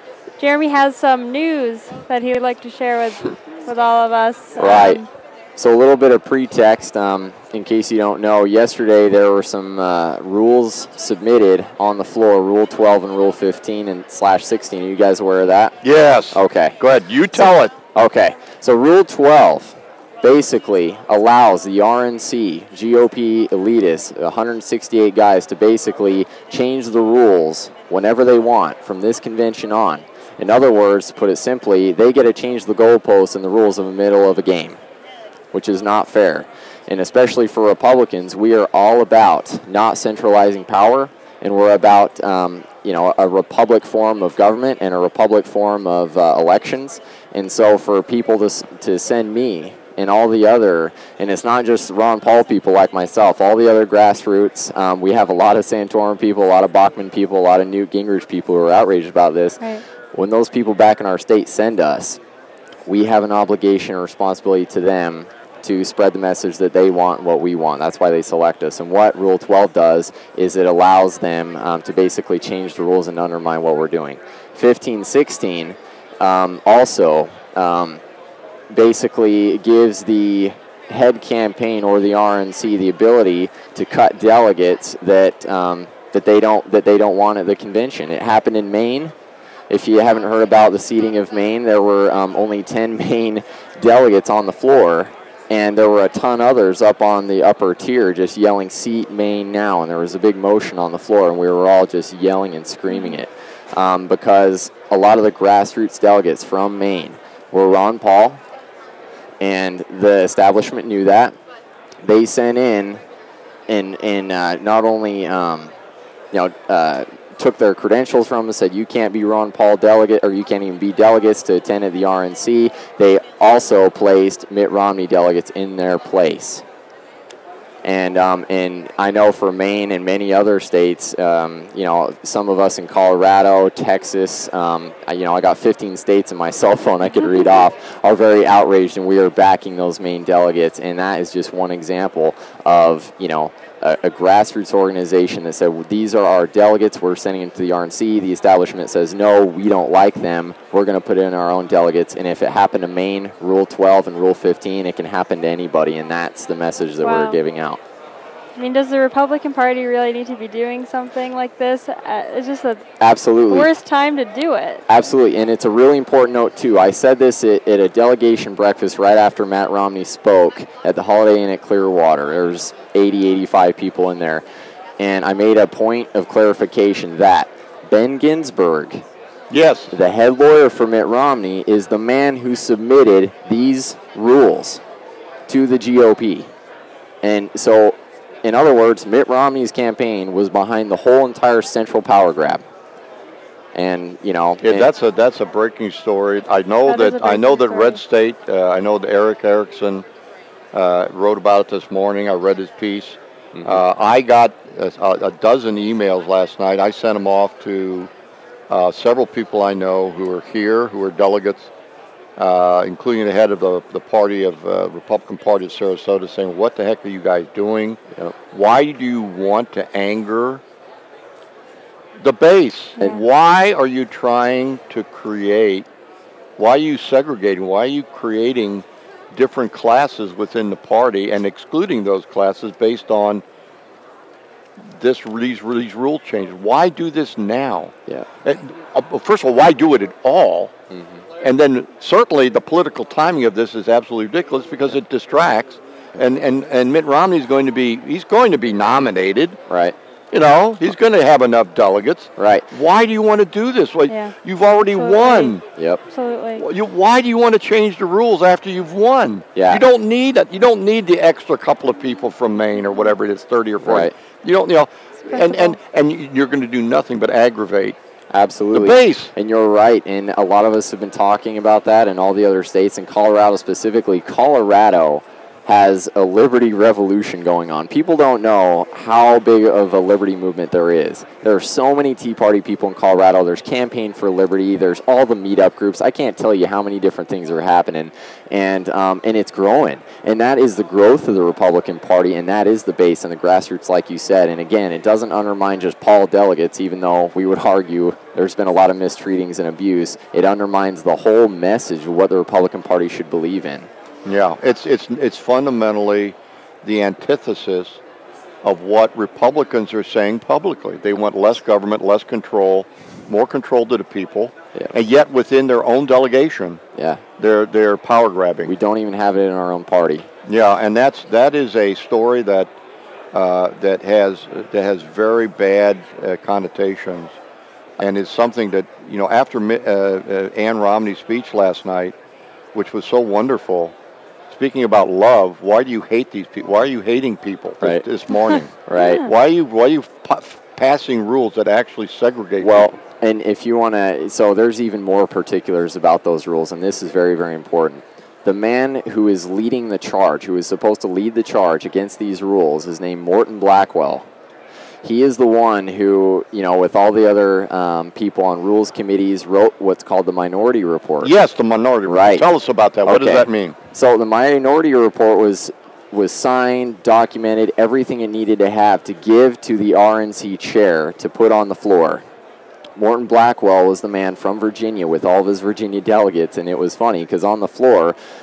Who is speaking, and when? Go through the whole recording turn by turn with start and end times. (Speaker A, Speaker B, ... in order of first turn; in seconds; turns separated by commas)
Speaker A: 0.4-5.1, Speaker B: 4.5-5.0, Speaker B: 5.5-15.8, Speaker C: 15.8-17.7, Speaker B: 16.3-16.8, Speaker B: 17.3-34.8, Speaker B: 35.5-59.6, Speaker B: 60.1-62.2, Speaker B: 62.9-78.0, Speaker B: 78.7-89.1, Speaker B: 89.7-108.4, Speaker A: 102.9-103.2, Speaker B: 109.4-111.3, Speaker B: 112.0-113.0, Speaker B: 113.7-115.7, Speaker B: 116.3-126.6, Speaker B: 127.8-157.8, Speaker A: 157.0-157.4, Speaker A: 158.5-162.8, Speaker B: 163.0-163.7, Speaker A: 163.5-164.8, Speaker B: 164.9-174.4, Speaker B: 175.0-179.0, Speaker C: 179.5-180.0, Speaker B: 179.9-184.8, Speaker B: 185.5-186.5, Speaker B: 187.2-192.6, Speaker B: 193.7-194.9, Speaker C: 194.6-200.0, Speaker A: 196.8-198.0, Speaker C: 200.7-208.1, Speaker B: 203.5-203.8, Speaker C: 208.7-211.7, Speaker C: 212.4-218.0, Speaker C: 218.5-220.6, Speaker C: 222.2-225.9, Speaker C: 226.6-233.4, Speaker C: 235.0-237.9, Speaker C: 238.4-240.7, Speaker B: 240.9-241.2, Speaker C: 241.4-249.6, Speaker B: 249.7-249.9, Speaker C: 250.3-255.6, Speaker B: 252.4-252.7, Speaker A: 254.1-255.6, Speaker B: 255.7-256.0, Speaker A: 256.1-256.6, Speaker C: 256.6-267.9, Speaker B: 259.5-259.8, Speaker B: 263.8-264.1, Speaker A: 265.3-265.8, Speaker B: 268.3-303.9, Speaker C: 268.7-269.3, Speaker C: 304.2-308.0, Speaker C: 308.6-316.8, Speaker B: 316.9-317.2, Speaker C: 317.4-318.7, Speaker B: 318.6-320.3, Speaker C: 320.4-322.7, Speaker C: 323.3-327.3, Speaker C: 328.0-332.1, Speaker C: 332.7-333.9, Speaker C: 334.5-342.9, Speaker B: 338.9-339.3, Speaker B: 342.6-354.2, Speaker B: 355.0-361.3, Speaker C: 361.2-363.8, Speaker B: 362.1-362.5, Speaker B: 363.0-372.2, Speaker B: 373.0-378.1